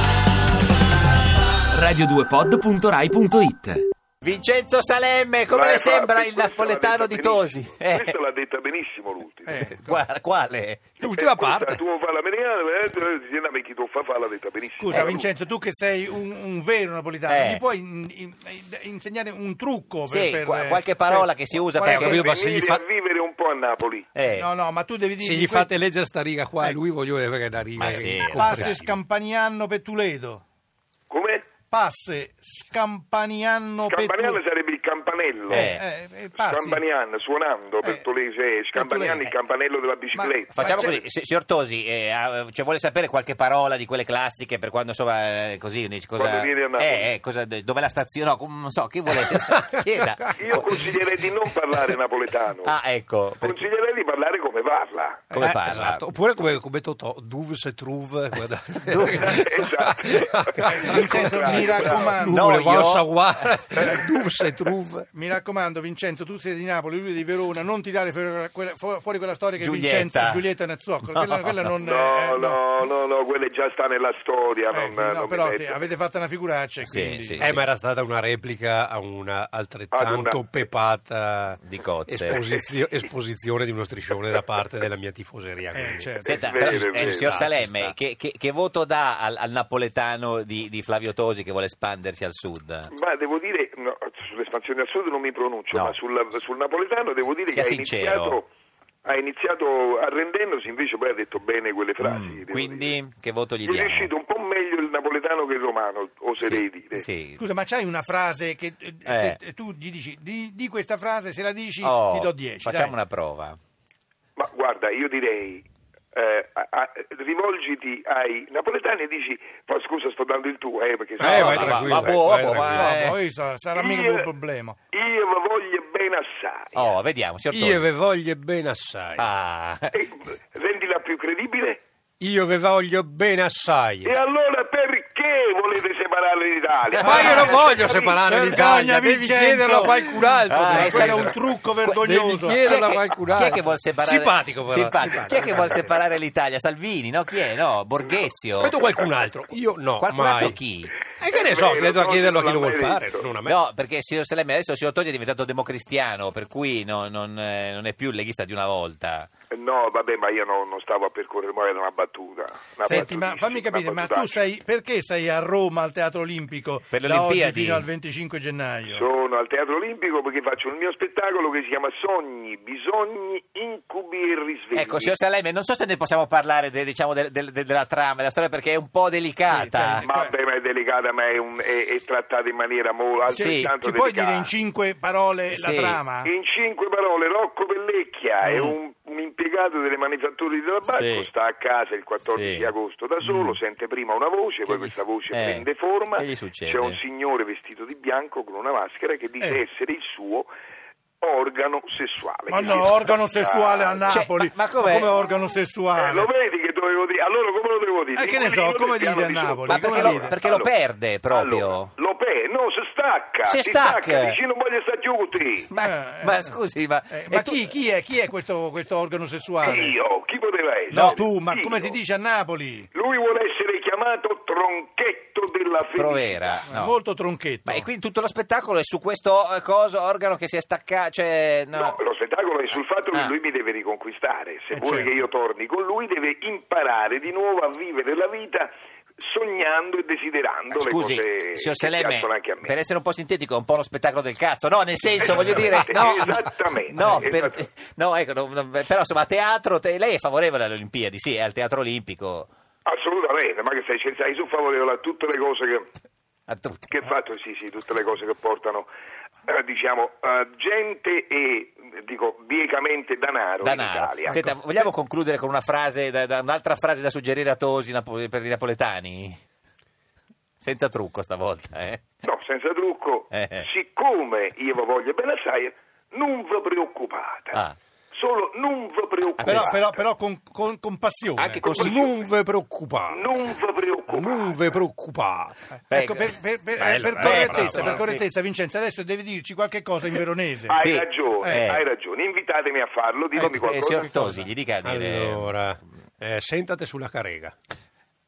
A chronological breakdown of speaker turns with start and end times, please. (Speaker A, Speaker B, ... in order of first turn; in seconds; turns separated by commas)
Speaker A: 1.7-3.8, Speaker B: 4.2-8.1, Speaker C: 5.5-9.7, Speaker D: 9.5-10.0, Speaker B: 9.7-11.0, Speaker E: 11.0-11.8, Speaker C: 11.0-15.3, Speaker D: 14.8-21.3, Speaker B: 17.3-17.6, Speaker B: 20.1-22.4, Speaker E: 21.8-22.8, Speaker C: 21.8-24.1, Speaker B: 24.1-24.5, Speaker D: 24.3-25.7, Speaker E: 25.2-28.8, Speaker B: 27.8-28.9, Speaker D: 28.2-30.4, Speaker C: 31.1-31.5, Speaker D: 31.7-34.4, Speaker C: 33.9-35.7, Speaker B: 35.5-35.8, Speaker D: 35.5-36.8, Speaker C: 36.4-40.8, Speaker D: 38.7-39.3, Speaker D: 40.1-41.0, Speaker B: 40.5-50.9, Speaker C: 46.2-47.1, Speaker E: 49.1-50.3, Speaker C: 50.4-52.8, Speaker B: 52.6-53.5, Speaker C: 53.4-55.3, Speaker B: 55.4-56.1, Speaker E: 55.4-65.1, Speaker B: 58.9-59.3, Speaker C: 59.2-62.2, Speaker D: 60.6-62.6, Speaker B: 62.2-63.2, Speaker D: 65.1-72.6, Speaker B: 69.6-70.4, Speaker B: 71.1-71.6, Speaker C: 71.8-75.9, Speaker D: 74.7-77.5, Speaker B: 76.8-77.6, Speaker E: 77.4-87.9, Speaker C: 79.9-80.4, Speaker B: 81.6-82.4, Speaker D: 85.7-86.6, Speaker B: 86.2-92.9, Speaker C: 86.2-87.3, Speaker C: 92.9-98.5, Speaker B: 95.7-96.0, Speaker B: 97.5-98.4, Speaker C: 99.0-103.0, Speaker B: 102.0-104.1, Speaker C: 103.6-107.1, Speaker B: 106.4-107.4, Speaker D: 107.4-113.0, Speaker B: 109.1-109.4, Speaker B: 111.8-113.6, Speaker C: 114.4-122.2, Speaker B: 121.2-123.1, Speaker E: 121.2-123.1, Speaker D: 122.7-124.8, Speaker C: 123.8-124.3, Speaker C: 124.9-126.9, Speaker B: 126.7-127.8, Speaker E: 127.5-129.3, Speaker B: 129.2-129.9, Speaker C: 129.9-131.8, Speaker E: 132.2-134.2, Speaker C: 134.0-138.2, Speaker D: 137.0-137.7, Speaker E: 137.0-141.3, Speaker B: 137.0-137.3, Speaker D: 138.3-142.7, Speaker B: 140.5-142.0, Speaker E: 141.9-146.0, Speaker B: 142.6-148.8, Speaker E: 148.6-153.6, Speaker B: 150.0-151.0, Speaker C: 151.2-153.3, Speaker B: 153.4-159.3, Speaker C: 159.5-164.4, Speaker D: 162.9-169.1, Speaker B: 166.9-167.9, Speaker C: 168.9-175.1, Speaker B: 174.7-180.1, Speaker D: 179.5-180.3, Speaker C: 180.0-184.5, Speaker D: 183.3-186.3, Speaker B: 183.3-183.7, Speaker B: 185.5-186.0, Speaker C: 186.2-200.5, Speaker B: 188.4-188.8, Speaker B: 190.9-191.3, Speaker B: 192.3-192.7, Speaker B: 193.2-193.6, Speaker B: 194.7-197.0, Speaker C: 201.2-204.2, Speaker D: 202.5-206.3, Speaker B: 204.1-205.1, Speaker C: 206.0-210.7, Speaker D: 208.2-210.4, Speaker B: 209.7-211.9, Speaker C: 211.3-215.7, Speaker B: 213.5-214.4, Speaker B: 215.7-217.7, Speaker D: 215.8-216.6, Speaker D: 217.1-219.9, Speaker C: 219.6-221.9, Speaker D: 220.9-222.9, Speaker B: 220.9-221.2, Speaker C: 222.9-226.6, Speaker B: 225.9-226.9, Speaker D: 226.7-227.9, Speaker B: 227.7-232.0, Speaker C: 231.8-242.8, Speaker D: 234.7-235.2, Speaker B: 240.7-252.5, Speaker C: 245.2-247.7, Speaker C: 252.9-255.9, Speaker B: 256.5-256.9, Speaker C: 256.9-258.9, Speaker C: 259.5-264.4, Speaker B: 263.6-269.4, Speaker B: 270.6-272.1, Speaker C: 272.2-279.8, Speaker B: 273.3-273.7, Speaker B: 279.4-279.8, Speaker D: 279.4-281.6, Speaker B: 281.4-282.2, Speaker E: 281.4-283.4, Speaker C: 281.7-282.0, Speaker C: 283.1-284.8, Speaker E: 284.1-285.6, Speaker B: 285.9-288.2, Speaker D: 285.9-290.8, Speaker E: 286.8-287.9, Speaker C: 290.7-294.4, Speaker B: 290.8-291.8, Speaker D: 291.4-291.7, Speaker B: 293.6-295.6, Speaker E: 294.8-297.5